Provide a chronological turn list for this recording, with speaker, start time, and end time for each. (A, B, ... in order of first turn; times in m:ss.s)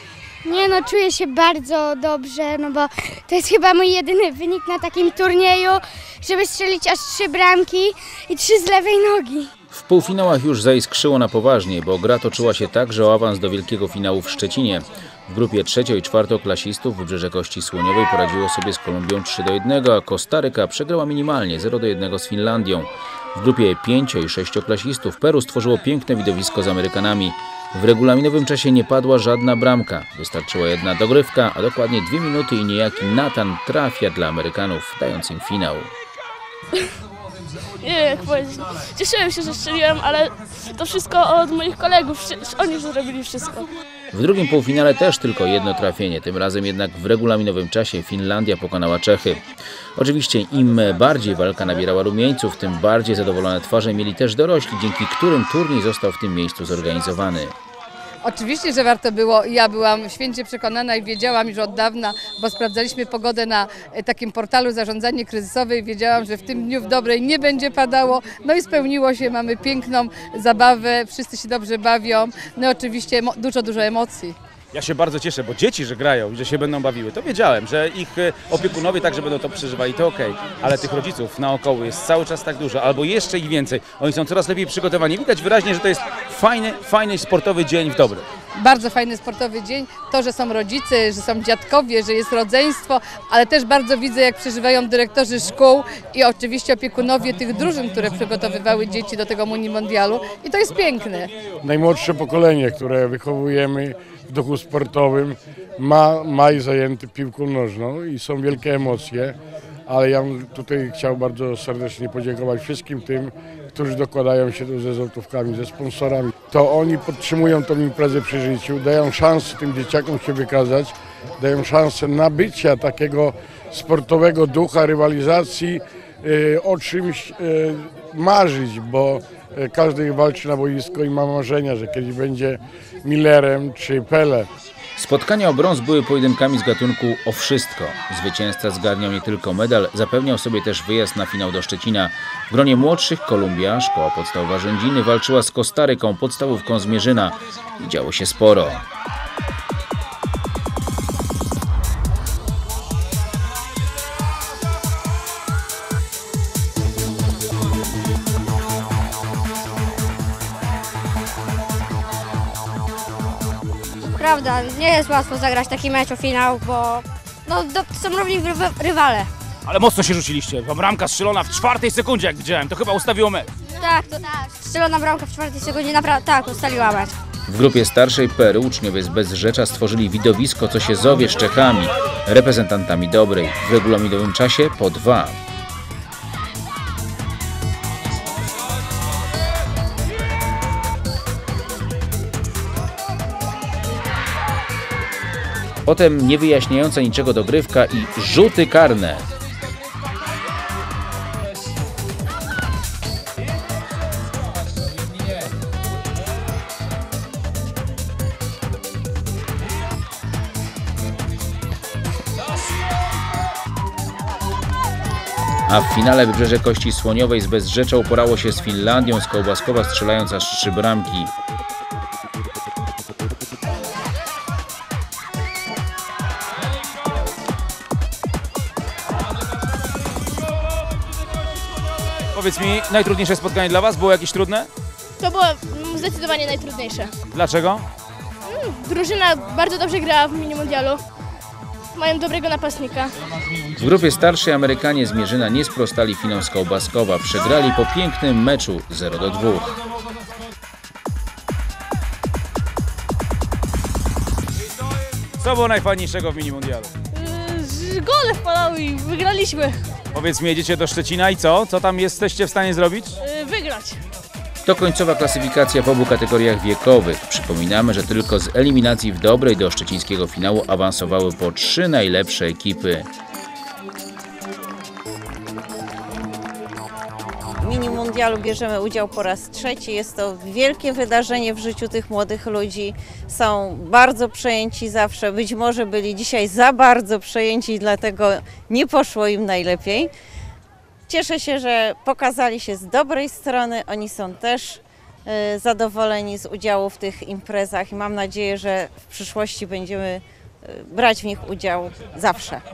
0:00.4-0:09.5 A
0:09.7-0:35.9 B
0:37.8-0:43.7 C
0:44.1-0:49.4 B
0:50.0-0:57.6 B
0:58.2-1:14.4 D
1:14.7-1:28.3 E
1:28.6-1:41.3 D
1:41.6-1:49.4 F
1:49.9-2:14.5 F
2:15.0-2:28.8 B
2:44.1-2:49.3 G
2:49.7-2:53.5 E
2:53.8-2:57.2 G
2:57.5-3:05.4 B
3:15.9-3:19.2 B
3:35.7-3:41.3 B
3:52.3-3:54.7 E
3:55.2-3:57.1 C
3:57.3-3:57.9 E
3:58.5-4:01.0 C
4:02.0-4:03.1 C
4:03.8-4:09.8 B
4:15.4-4:16.9 E
4:17.1-4:19.8 C
4:20.1-4:23.2 E
4:23.2-4:24.0 C
4:24.6-4:33.1 B
4:37.6-4:50.1 H
4:51.1-5:02.6 H